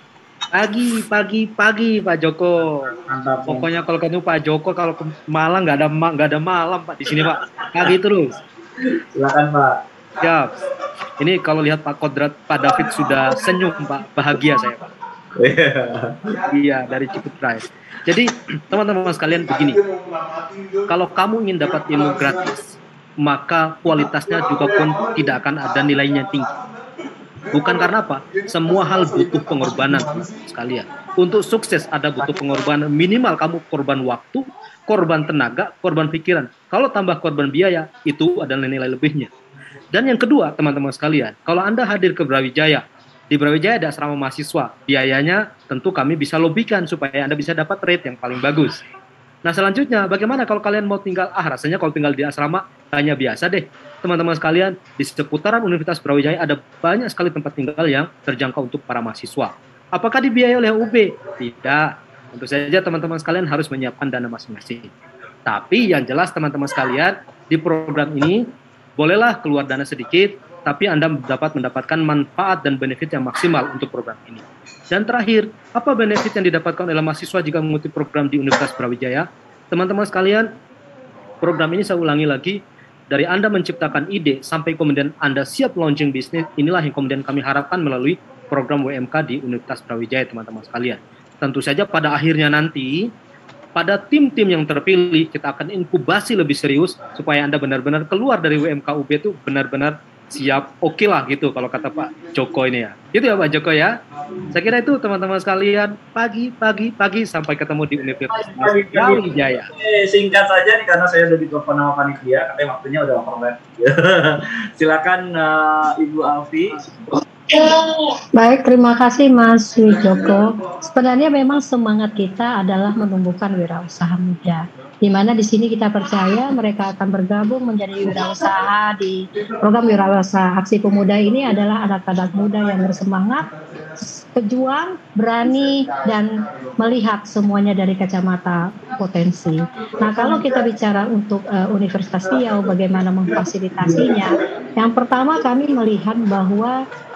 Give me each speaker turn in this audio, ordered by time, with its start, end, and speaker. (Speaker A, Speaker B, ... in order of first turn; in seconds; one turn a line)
Speaker A: 0.5-2.9
Speaker B: 3.0-3.7
Speaker A: 3.5-8.3
Speaker B: 9.1-9.8
Speaker A: 10.2-10.6
Speaker A: 11.2-14.9
Speaker B: 15.4-16.2
Speaker A: 16.4-19.8
Speaker A: 20.9-26.5
Speaker A: 27.5-39.3
Speaker A: 39.9-48.8
Speaker A: 49.4-64.9
Speaker A: 65.5-80.5
Speaker A: 81.4-93.1
Speaker A: 93.8-104.0
Speaker A: 104.5-109.7
Speaker B: 108.5-116.7
Speaker C: 117.5-133.4
Speaker C: 134.0-146.8